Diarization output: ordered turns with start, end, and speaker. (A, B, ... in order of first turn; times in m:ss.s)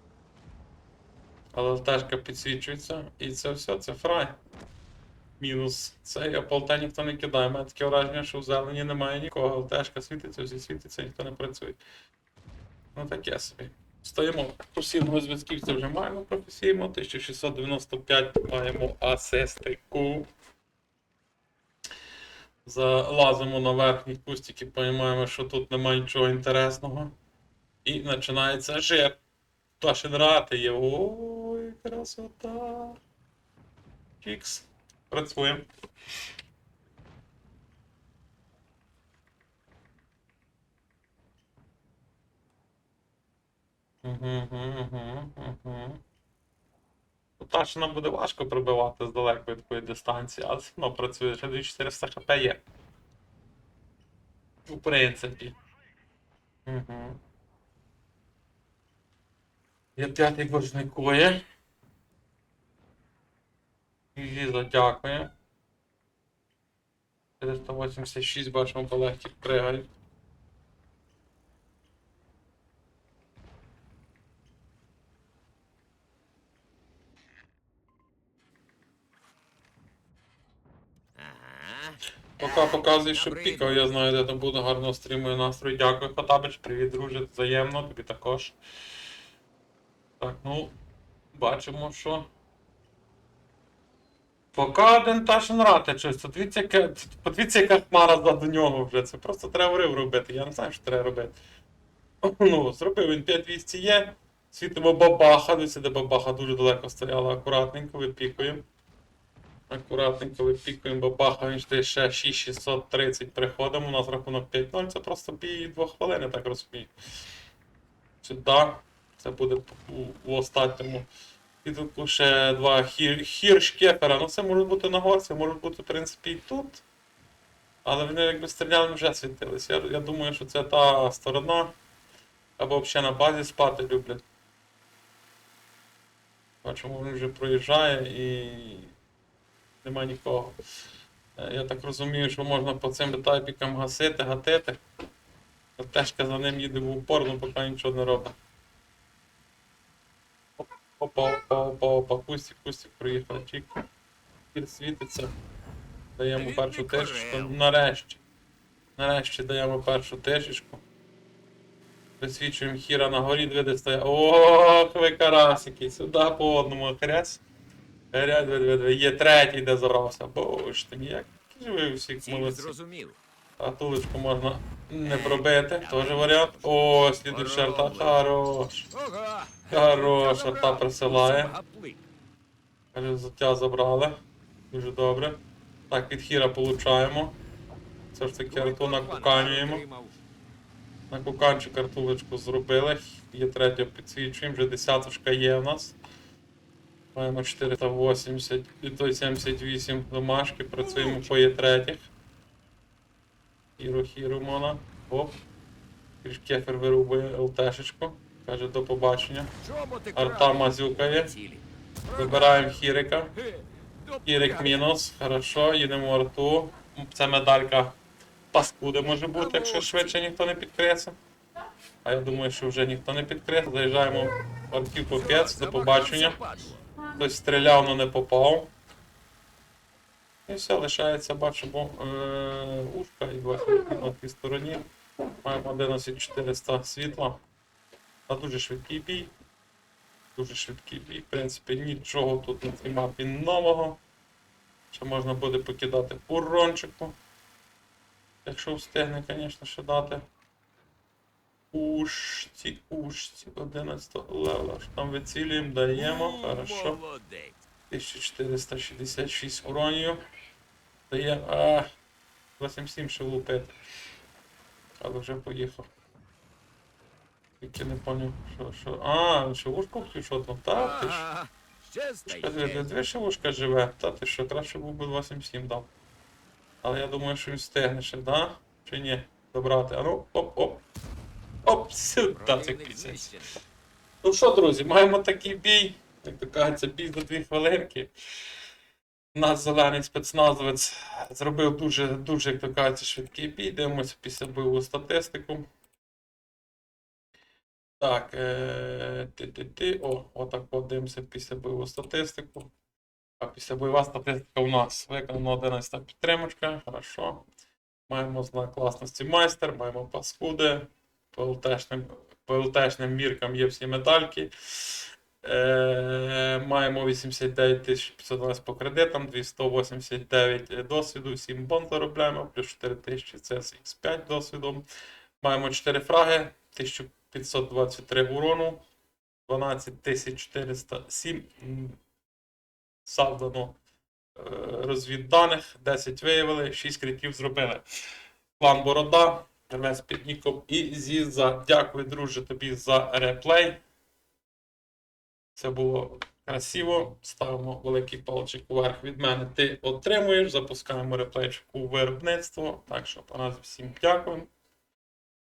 0:01.5-0:04.4 A
0:05.4-0:11.8 A
0:12.9-0:20.3 A
0:22.6-0:27.1 A
0:27.8-0:29.2 A
0:29.8-0:33.0 A
0:34.2-0:35.6 A
0:44.0-0:46.0 A
0:47.4-0:52.6 A
0:54.6-0:55.5 A
0:56.6-0:57.2 A
1:00.0-1:01.4 A
1:04.1-1:05.3 A
1:07.4-1:09.9 A
1:21.2-1:23.8 B
1:22.4-1:28.6 A
1:30.2-1:30.7 A
1:31.3-1:32.3 A
1:34.5-1:41.3 A
1:42.2-1:48.6 A
1:49.7-1:56.9 A
1:58.2-2:01.1 A
2:01.6-2:06.8 A
2:07.8-2:11.7 A
2:12.6-2:14.2 A
2:16.6-2:18.9 A
2:19.8-2:20.6 A
2:21.4-2:24.8 A
2:25.8-2:28.4 A
2:30.6-2:33.7 A
2:34.5-2:35.3 A
2:36.2-2:38.2 A
2:36.3-2:37.6 B
2:39.0-2:40.8 A
2:42.2-2:47.4 A
2:48.1-2:52.7 A
2:52.2-2:53.2 B
2:53.6-2:58.9 A
2:55.0-2:58.2 B
2:58.9-3:02.0 B
2:59.7-3:01.5 A
3:02.9-3:04.2 A
3:04.7-3:07.3 A
3:08.1-3:09.8 A
3:08.5-3:10.1 B
3:11.1-3:16.0 A
3:17.1-3:22.0 A
3:21.0-3:21.3 B
3:23.8-3:25.4 A
3:26.2-3:29.5 A
3:29.6-3:32.8 B
3:30.1-3:31.3 A
3:32.1-3:33.3 A
3:33.3-3:34.8 B
3:34.2-3:38.0 A
3:38.5-3:41.2 A
3:39.3-3:40.2 B
3:42.0-3:46.4 A
3:45.1-3:46.8 B
3:47.1-3:48.7 A
3:50.5-3:54.8 A
3:55.4-3:57.4 A
3:58.3-3:59.3 A
4:00.4-4:04.0 A
4:04.9-4:07.2 A
4:08.4-4:10.2 A
4:11.7-4:17.0 A
4:15.9-4:17.6 B
4:17.9-4:20.2 A
4:21.1-4:21.9 A
4:22.6-4:23.7 A
4:25.0-4:25.9 A
4:27.6-4:31.3 A
4:30.7-4:32.9 B
4:32.2-4:35.9 A
4:36.8-4:40.8 A
4:41.6-4:43.3 A
4:42.2-4:43.5 B
4:44.2-4:48.1 A
4:49.3-4:55.6 A
4:58.0-5:02.7 A
5:03.4-5:07.4 A
5:08.1-5:24.8 A
5:25.4-5:28.8 A
5:29.5-5:32.0 A
5:33.0-5:33.8 A
5:34.4-5:37.8 A
5:38.6-5:43.8 A
5:45.6-5:54.5 A